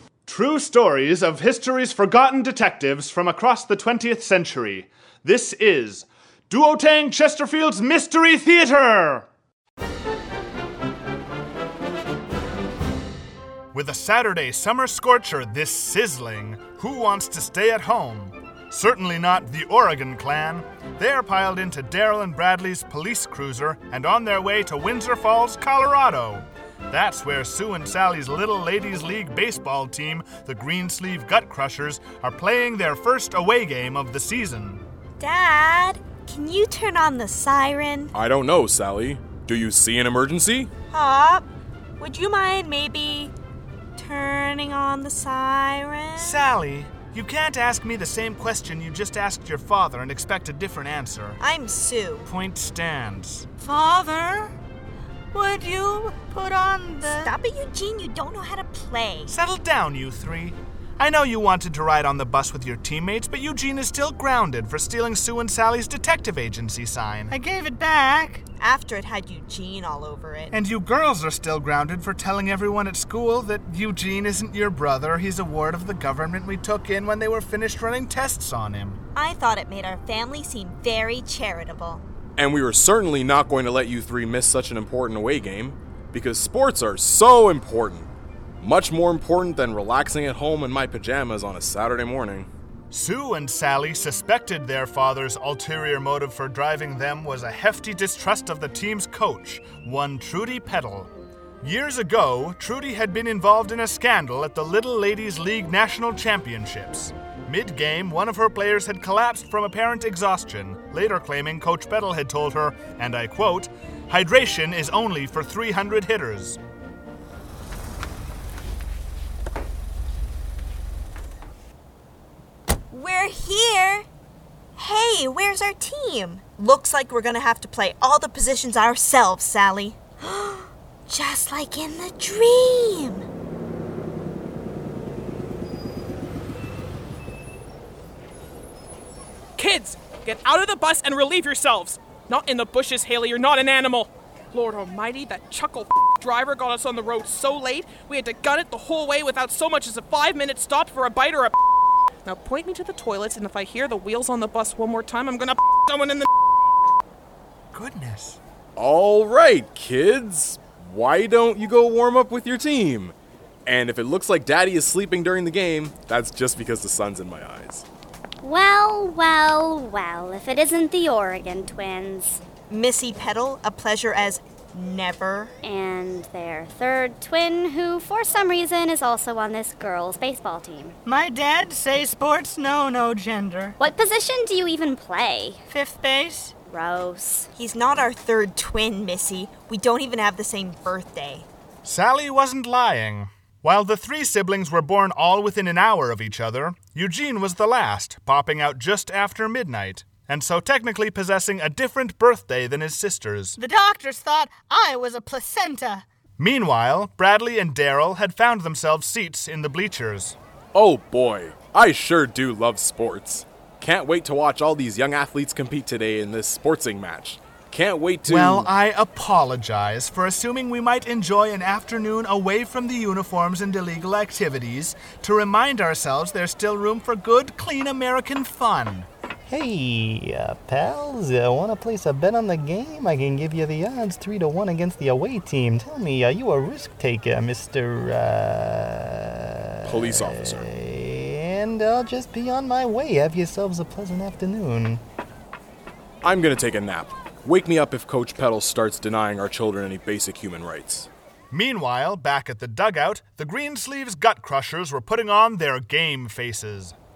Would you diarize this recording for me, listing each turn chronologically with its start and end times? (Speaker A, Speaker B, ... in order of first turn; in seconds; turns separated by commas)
Speaker A: 0.3-9.3, Speaker A: 13.7-34.8, Speaker B: 35.2-38.1, Speaker C: 38.1-40.7, Speaker B: 40.9-41.5, Speaker B: 42.0-43.3, Speaker B: 44.0-46.4, Speaker A: 46.2-51.4, Speaker B: 51.4-52.3, Speaker A: 52.3-53.5, Speaker D: 53.6-54.5, Speaker D: 55.3-57.3, Speaker B: 57.1-59.3, Speaker A: 59.3-67.3, Speaker D: 67.3-68.4, Speaker B: 68.6-70.5, Speaker A: 70.5-79.0, Speaker B: 79.2-82.0, Speaker C: 82.4-88.1, Speaker C: 88.6-92.5, Speaker A: 92.9-101.1, Speaker A: 101.6-116.6, Speaker B: 122.9-124.1, Speaker B: 124.8-133.3, Speaker E: 139.6-151.6, Speaker E: 152.2-156.3, Speaker A: 157.7-158.4, Speaker C: 158.8-163.2, Speaker C: 163.7-167.9, Speaker F: 168.4-172.4, Speaker B: 172.7-175.5, Speaker F: 175.6-180.9, Speaker D: 181.1-183.8, Speaker F: 183.8-185.6, Speaker D: 185.7-186.5, Speaker F: 186.7-187.5, Speaker B: 187.6-191.5, Speaker A: 191.8-203.6, Speaker D: 203.6-206.1, Speaker A: 206.4-210.4, Speaker C: 210.7-218.7, Speaker A: 218.3-229.1, Speaker G: 229.5-245.0, Speaker C: 239.8-240.6, Speaker C: 246.2-251.1, Speaker A: 251.5-256.9